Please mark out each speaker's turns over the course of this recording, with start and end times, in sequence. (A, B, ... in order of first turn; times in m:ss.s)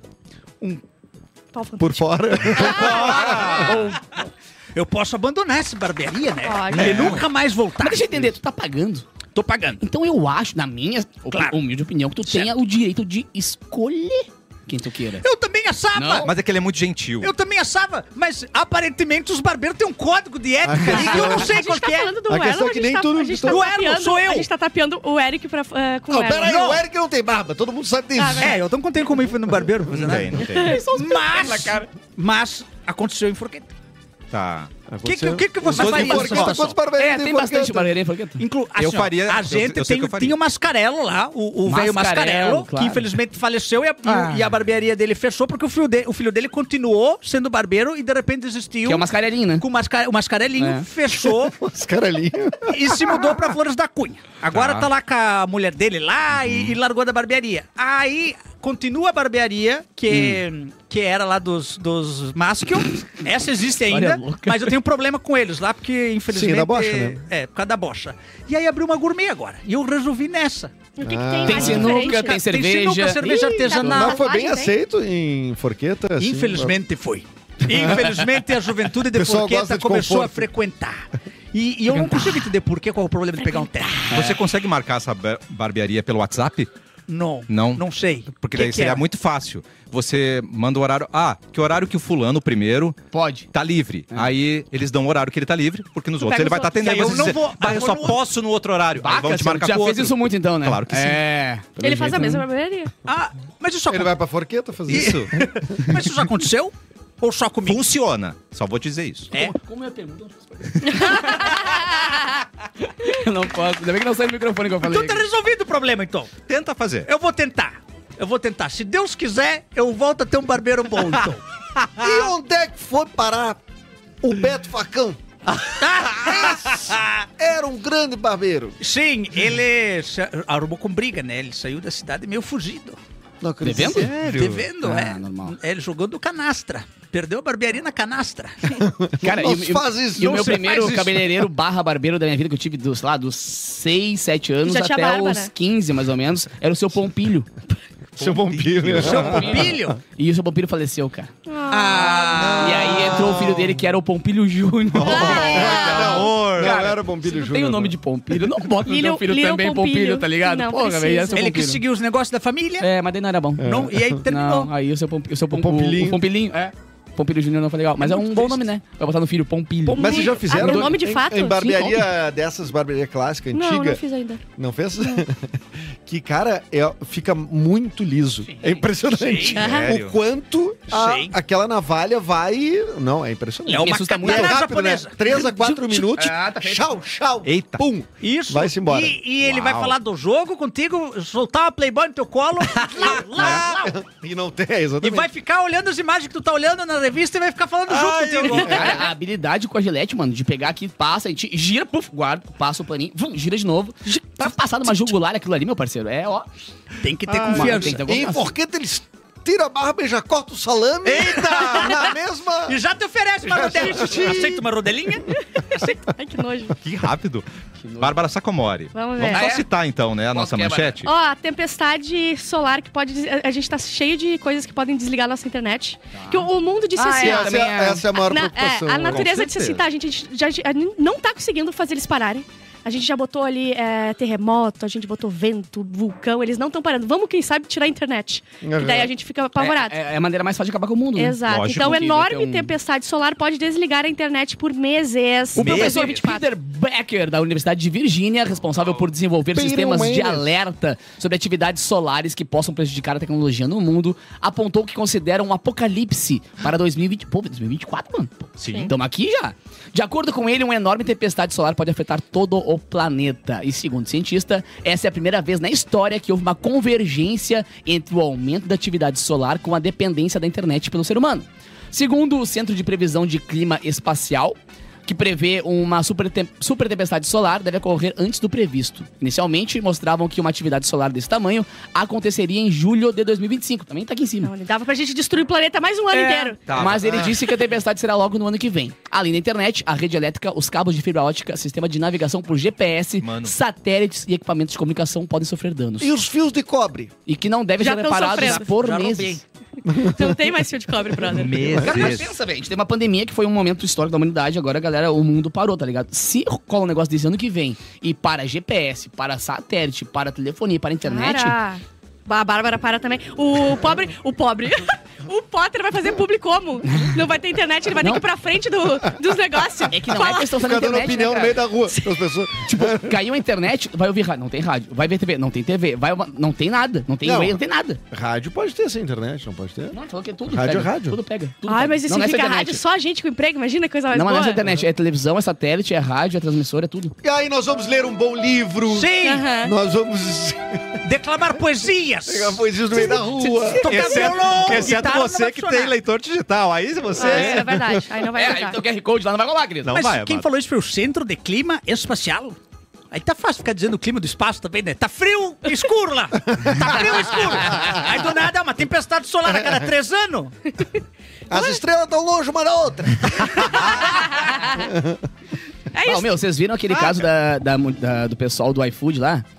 0:01.5-0:03.0 A
0:01.8-0:03.6 B
0:02.5-0:03.9 C
0:02.9-0:03.4 D
0:03.4-0:04.0 E
0:04.7-0:08.2 D
0:06.4-0:07.2 A
0:06.7-0:07.3 C
0:07.8-0:09.0 E
0:09.3-0:09.8 D
0:09.8-0:15.2 E
0:11.3-0:11.6 D
0:15.2-0:16.3 D
0:15.9-0:16.3 E
0:16.2-0:17.3 C
0:17.2-0:22.2 D
0:20.6-0:21.5 B
0:20.9-0:26.6 A
0:22.3-0:23.6 B
0:23.4-0:24.5 D
0:26.1-0:28.6 B
0:26.4-0:26.8 D
0:28.2-0:28.6 A
0:28.4-0:33.7 D
0:29.9-0:30.8 C
0:30.4-0:31.5 A
0:30.7-0:31.8 E
0:34.3-0:34.7 C
0:34.9-0:37.9 B
0:35.0-0:36.8 D
0:35.6-0:36.6 C
0:36.9-0:38.4 E
0:38.4-0:49.0 D
0:38.8-0:40.4 C
0:41.6-0:43.1 E
0:44.0-0:44.5 E
0:48.8-0:49.6 E
0:49.6-0:51.6 D
0:50.6-0:50.9 E
0:51.1-0:53.5 B
0:52.7-1:10.9 D
0:54.5-0:54.9 C
0:56.3-0:56.8 C
1:00.1-1:00.4 E
1:03.8-1:04.8 E
1:06.3-1:07.2 B
1:11.0-1:12.4 A
1:11.0-1:12.0 B
1:11.4-1:14.1 E
1:11.7-1:14.2 D
1:13.2-1:14.7 A
1:13.9-1:16.8 B
1:16.2-1:24.2 D
1:17.6-1:20.5 B
1:23.4-1:23.7 A
1:24.1-1:24.5 E
1:24.1-1:26.7 C
1:27.1-1:29.0 D
1:27.5-1:33.0 C
1:33.1-1:33.5 E
1:33.5-1:41.2 C
1:36.2-1:37.2 A
1:36.8-1:38.2 D
1:39.0-1:42.4 E
1:41.8-1:42.9 A
1:41.9-1:42.3 B
1:43.0-1:44.1 D
1:43.9-1:46.1 B
1:44.9-1:45.4 C
1:44.9-1:47.9 D
1:47.6-1:49.3 C
1:49.3-1:51.8 E
1:50.9-1:52.2 A
1:53.0-1:55.3 E
1:54.8-1:56.3 D
1:56.5-1:57.1 C
1:57.0-2:01.4 D
2:01.8-2:02.2 C
2:02.0-2:03.6 B
2:04.2-2:05.2 B
2:05.8-2:07.2 D
2:06.2-2:08.8 B
2:08.8-2:13.0 D
2:13.4-2:14.5 B
2:13.6-2:14.1 E
2:13.9-2:14.7 C
2:14.2-2:18.8 D
2:14.8-2:15.6 E
2:18.7-2:21.0 B
2:19.2-2:27.5 E
2:20.2-2:21.4 D
2:24.6-2:25.5 A
2:28.2-2:29.9 B
2:28.2-2:29.5 C
2:29.0-2:30.0 D
2:29.0-2:31.3 E
2:31.5-2:32.5 A
2:31.7-2:33.3 D
2:32.4-2:33.7 B
2:32.5-2:35.7 E
2:32.7-2:33.4 C
2:34.9-2:38.0 B
2:35.0-2:36.4 A
2:35.2-2:36.8 C
2:36.5-2:41.8 E
2:38.8-2:41.5 A
2:41.3-2:42.9 D
2:42.8-2:51.0 E
2:43.6-2:44.2 B
2:43.6-2:44.7 D
2:45.5-2:46.2 B
2:48.0-2:48.7 D
2:49.8-2:51.6 A
2:49.9-2:54.0 B
2:51.5-2:52.1 E
2:53.5-2:54.4 A
2:54.6-3:09.2 B
2:59.1-2:59.7 D
2:59.5-3:00.0 A
2:59.6-3:00.2 C
3:00.9-3:01.3 D
3:03.7-3:05.2 D
3:03.7-3:04.6 E
3:05.3-3:06.9 E
3:07.4-3:07.8 C
3:08.2-3:13.9 D
3:09.4-3:10.0 C
3:13.0-3:15.3 B
3:15.0-3:19.1 D
3:17.9-3:19.0 C
3:18.4-3:18.7 A
3:18.6-3:26.5 E
3:27.0-3:28.0 D
3:27.3-3:32.8 B
3:27.3-3:28.5 E
3:31.0-3:35.3 D
3:33.4-3:34.6 B
3:35.5-3:36.8 A
3:36.8-3:37.4 C
3:37.8-3:38.2 E
3:38.0-3:41.1 C
3:38.9-3:39.5 A
3:39.2-3:39.7 E
3:40.3-3:41.0 E
3:41.0-3:47.6 A
3:46.1-3:48.0 E
3:47.1-3:49.5 B
3:48.1-4:00.0 A
3:49.0-3:49.8 C
3:58.6-3:59.1 B
3:59.6-4:02.7 E
4:01.1-4:06.5 A
4:01.4-4:01.9 C
4:05.5-4:44.5 E
4:05.6-4:06.2 C
4:09.5-4:10.5 B
4:18.6-4:18.9 C
4:44.4-4:46.7 A
4:46.1-4:56.2 E
4:46.6-4:47.3 C
4:53.2-4:53.6 C
4:56.0-4:57.1 B
4:57.3-4:59.4 E
4:57.8-4:58.7 A
4:58.2-4:59.4 D
4:59.9-5:01.7 A
4:59.9-5:00.3 B
5:01.2-5:02.3 C
5:01.7-5:11.6 E
5:01.8-5:02.1 B
5:11.0-5:20.6 A
5:18.0-5:18.2 E
5:19.9-5:21.6 E
5:20.5-5:23.2 B
5:21.9-5:22.2 A
5:22.6-5:28.0 E
5:27.2-5:27.6 B
5:28.1-5:30.0 B
5:29.9-5:32.8 E
5:30.5-5:31.2 B
5:31.6-5:34.6 A
5:34.1-5:37.1 E
5:37.2-5:41.0 B
5:38.9-5:39.5 D
5:39.2-5:39.7 A
5:41.0-5:42.6 D
5:42.2-5:44.7 B
5:42.9-5:44.4 A
5:43.7-5:46.0 D
5:43.8-5:47.7 C
5:47.1-5:48.1 B
5:47.1-5:48.8 A
5:48.3-5:50.0 E
5:49.8-5:50.4 C
5:49.9-5:52.6 D
5:53.1-6:00.5 D
5:56.7-5:58.0 B
5:59.5-5:59.9 B
6:01.5-6:04.1 B
6:01.5-6:01.8 A
6:03.9-6:04.8 A
6:04.6-6:05.2 B
6:05.9-6:06.3 A
6:06.0-6:09.4 E